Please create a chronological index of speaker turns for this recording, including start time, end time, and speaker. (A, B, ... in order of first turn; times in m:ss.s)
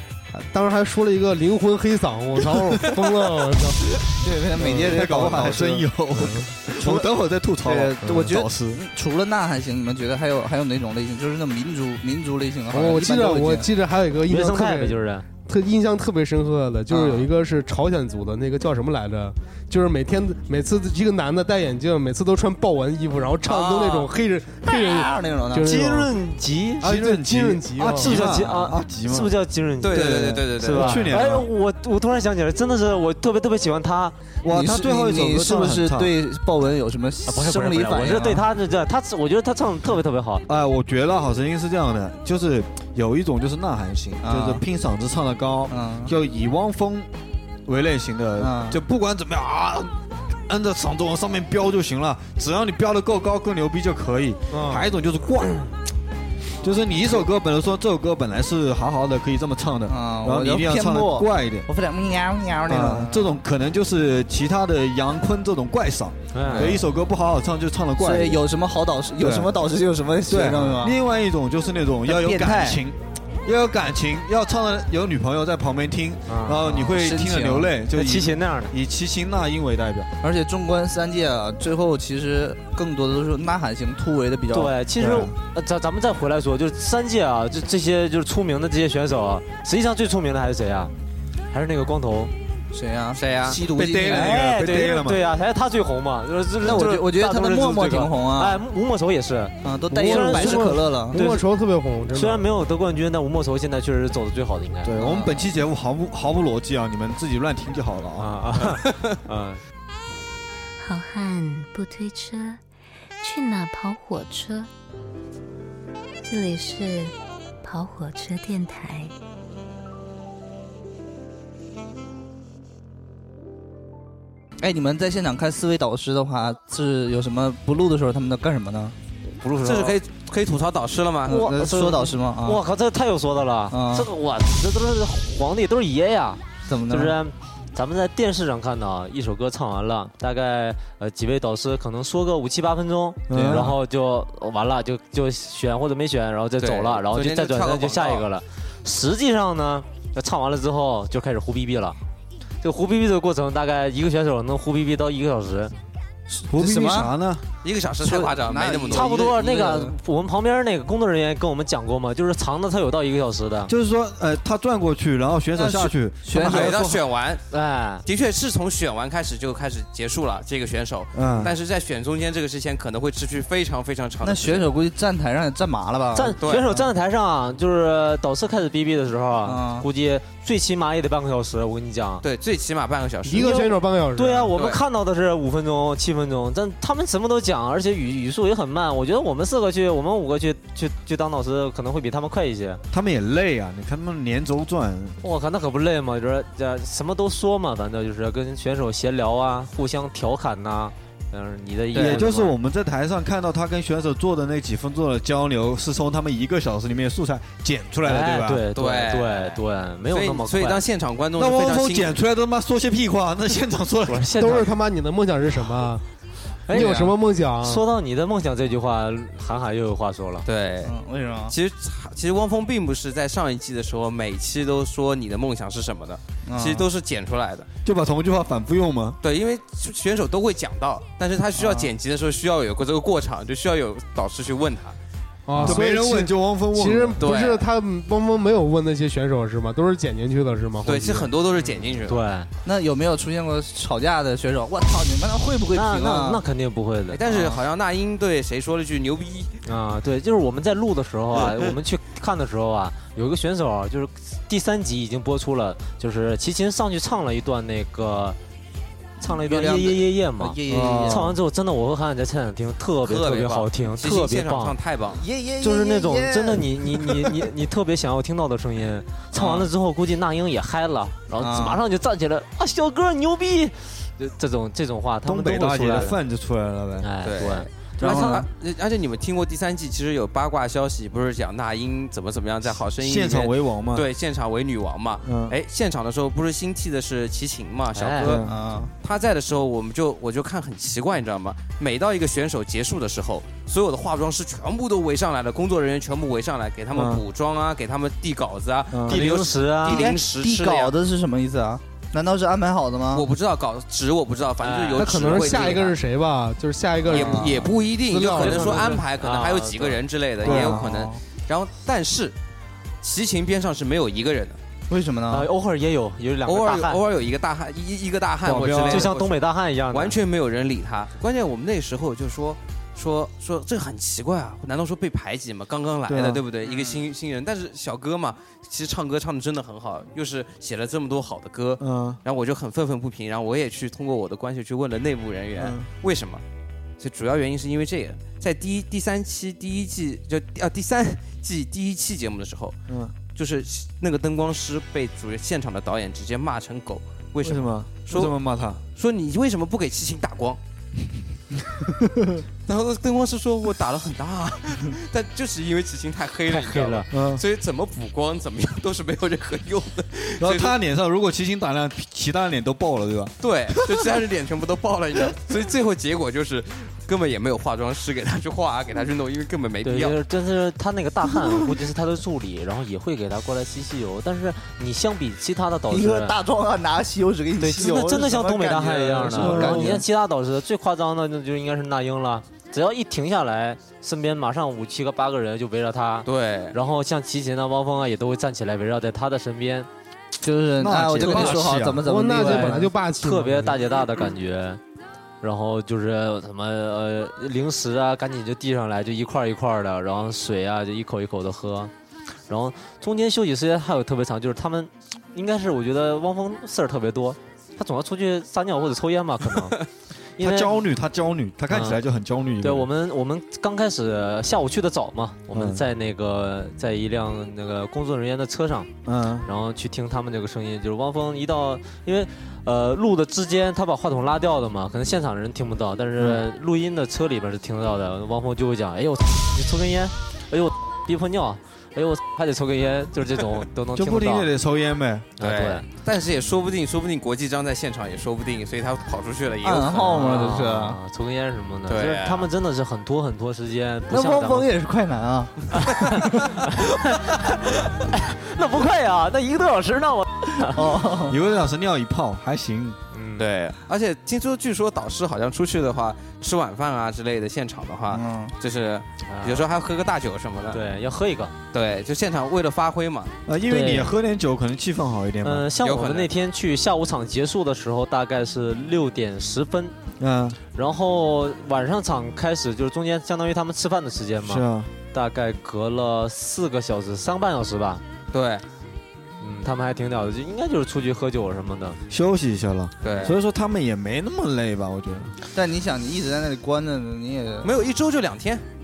0:00.3-0:04.0 A
0:04.2-0:05.9 B
0:04.6-0:04.9 A
0:04.6-0:08.8 C
0:06.2-0:06.5 A
0:06.7-0:07.1 B
0:07.6-0:13.7 B
0:12.7-0:26.1 A
0:14.3-0:15.3 D
0:16.9-0:17.3 B
0:23.4-0:24.1 E
0:24.6-0:25.7 B
0:25.6-0:26.9 D
0:26.8-0:28.1 A
0:26.8-0:31.5 C
0:28.0-0:34.2 D
0:29.8-0:31.1 E
0:34.4-0:36.1 C
0:34.4-0:38.4 B
0:37.3-0:40.4 D
0:40.5-0:47.1 C
0:44.2-0:44.6 B
0:45.7-0:46.1 B
0:47.7-0:55.7 C
0:48.4-0:48.8 B
0:54.5-0:54.8 A
0:56.6-1:01.7 C
0:59.9-1:03.4 B
1:02.7-1:08.4 C
1:06.3-1:06.8 D
1:06.5-1:06.8 B
1:08.0-1:11.0 B
1:09.2-1:09.5 C
1:10.3-1:20.1 C
1:12.1-1:12.8 B
1:16.3-1:16.6 D
1:16.6-1:17.7 B
1:17.9-1:18.7 D
1:20.2-1:24.7 B
1:24.5-1:30.9 D
1:25.0-1:25.3 C
1:31.5-1:32.3 D
1:32.7-1:34.4 B
1:33.2-1:33.6 E
1:33.6-1:35.2 C
1:34.0-1:41.4 D
1:36.6-1:38.6 B
1:39.6-1:41.2 B
1:39.9-1:42.5 A
1:42.1-1:45.0 D
1:44.8-1:48.4 C
1:45.0-1:45.4 B
1:48.2-1:49.6 D
1:50.8-1:52.6 F
1:53.2-1:54.7 F
1:56.2-1:59.1 F
2:04.6-2:09.0 B
2:09.4-2:10.0 D
2:09.6-2:11.4 E
2:11.3-2:12.6 B
2:11.3-2:32.0 D
2:13.7-2:14.1 B
2:16.7-2:17.2 B
2:23.3-2:23.8 C
2:26.6-2:28.3 E
2:32.6-2:35.7 D
2:36.3-2:37.1 B
2:36.5-2:37.4 C
2:37.6-2:39.3 E
2:38.0-2:40.0 B
2:38.9-2:43.7 D
2:43.7-2:47.0 C
2:45.6-2:46.8 B
2:46.4-2:47.4 E
2:47.5-2:48.0 D
2:48.0-2:54.7 E
2:51.1-2:51.5 C
2:54.2-2:56.9 B
2:56.2-3:02.2 D
2:56.4-2:56.7 E
2:59.4-2:59.9 B
3:02.2-3:03.5 E
3:03.2-3:04.5 A
3:03.3-3:12.8 D
3:04.5-3:04.8 E
3:12.9-3:15.2 C
3:15.2-3:22.5 D
3:22.0-3:28.7 C
3:28.0-3:30.8 D
3:28.7-3:32.2 E
3:31.4-3:34.3 C
3:34.1-3:34.7 D
3:34.4-3:36.0 A
3:36.7-3:40.5 D
3:36.7-3:37.8 A
3:36.8-3:37.0 B
3:40.4-3:40.9 E
3:40.8-3:41.6 B
3:41.5-3:47.7 E
3:46.4-3:46.9 B
3:47.8-3:49.2 C
3:49.2-3:55.0 E
3:51.6-3:51.9 B
3:55.5-4:01.3 A
3:55.6-3:57.2 C
3:57.2-3:57.6 E
4:00.8-4:02.2 E
4:01.6-4:02.5 D
4:02.6-4:06.4 B
4:05.7-4:07.2 D
4:07.1-4:09.6 E
4:07.3-4:07.6 B
4:09.6-4:18.4 D
4:19.2-4:21.3 B
4:19.2-4:24.8 D
4:20.7-4:21.3 C
4:23.0-4:25.2 E
4:25.2-4:27.4 B
4:25.6-4:36.2 D
4:29.4-4:29.6 B
4:31.4-4:31.8 B
4:35.2-4:37.1 C
4:37.0-4:38.5 D
4:37.2-4:48.4 E
4:38.0-4:38.3 C
4:43.0-4:44.1 C
4:45.2-4:45.6 C
4:47.9-4:48.4 D
4:48.2-4:48.6 C
4:48.4-4:48.9 B
4:49.0-5:00.9 E
4:56.9-4:57.2 C
4:58.9-4:59.2 C
4:59.1-5:00.2 D
4:59.8-5:03.3 B
5:03.1-5:06.0 E
5:04.6-5:05.9 D
5:05.0-5:09.0 A
5:07.1-5:07.7 B
5:07.1-5:12.4 E
5:08.2-5:10.0 D
5:10.4-5:11.2 B
5:10.4-5:10.9 C
5:13.0-5:14.6 E
5:14.9-5:15.5 B
5:15.3-5:17.0 D
5:16.5-5:19.4 E
5:18.4-5:19.1 C
5:18.8-5:20.2 D
5:19.9-5:36.4 E
5:26.1-5:26.4 C
5:31.8-5:32.2 C
5:35.6-5:35.9 C
5:37.0-5:42.8 E
5:42.9-5:43.2 C
5:43.3-5:48.3 E
5:47.4-5:48.8 C
5:49.0-5:50.6 E
5:52.0-5:52.4 C
5:52.7-6:00.8 E
5:56.5-5:57.1 D
5:57.1-5:57.4 C
6:00.4-6:04.0 C
6:03.4-6:10.2 E
6:09.8-6:16.4 D
6:15.9-6:20.0 B
6:17.6-6:29.9 D
6:19.3-6:20.0 C
6:26.2-6:26.8 E
6:30.4-6:32.9 B
6:30.8-6:32.0 C
6:31.3-6:31.5 D
6:32.0-6:33.8 A
6:32.4-6:34.8 D
6:35.4-6:41.9 D
6:42.5-6:49.8 D
6:50.4-6:50.8 D
6:50.4-6:52.9 C
6:51.7-6:52.0 D
6:52.6-6:58.9 D
6:55.5-6:55.8 C
6:59.0-6:59.5 C
6:59.5-7:14.5 D
7:14.0-7:15.4 C
7:15.4-7:15.9 D
7:15.4-7:20.5 E
7:19.6-7:21.0 B
7:20.0-7:24.7 D
7:21.9-7:22.5 E
7:24.1-7:26.3 B
7:25.8-7:30.8 D
7:30.6-7:31.4 B
7:31.3-7:33.0 C
7:33.1-7:33.5 D
7:33.4-7:40.8 E
7:38.1-7:38.6 B
7:39.3-7:39.7 D
7:40.7-7:41.6 D
7:41.7-7:43.3 E
7:43.5-7:45.7 C
7:43.7-7:44.1 D
7:45.4-7:50.0 D
7:45.8-7:46.3 E
7:50.2-7:50.6 C
7:50.7-7:58.0 D
7:54.4-7:54.9 C
7:58.3-7:58.6 E
7:59.4-8:02.0 D
8:02.1-8:05.3 C
8:03.0-8:03.4 E
8:05.5-8:07.7 B
8:07.6-8:08.6 E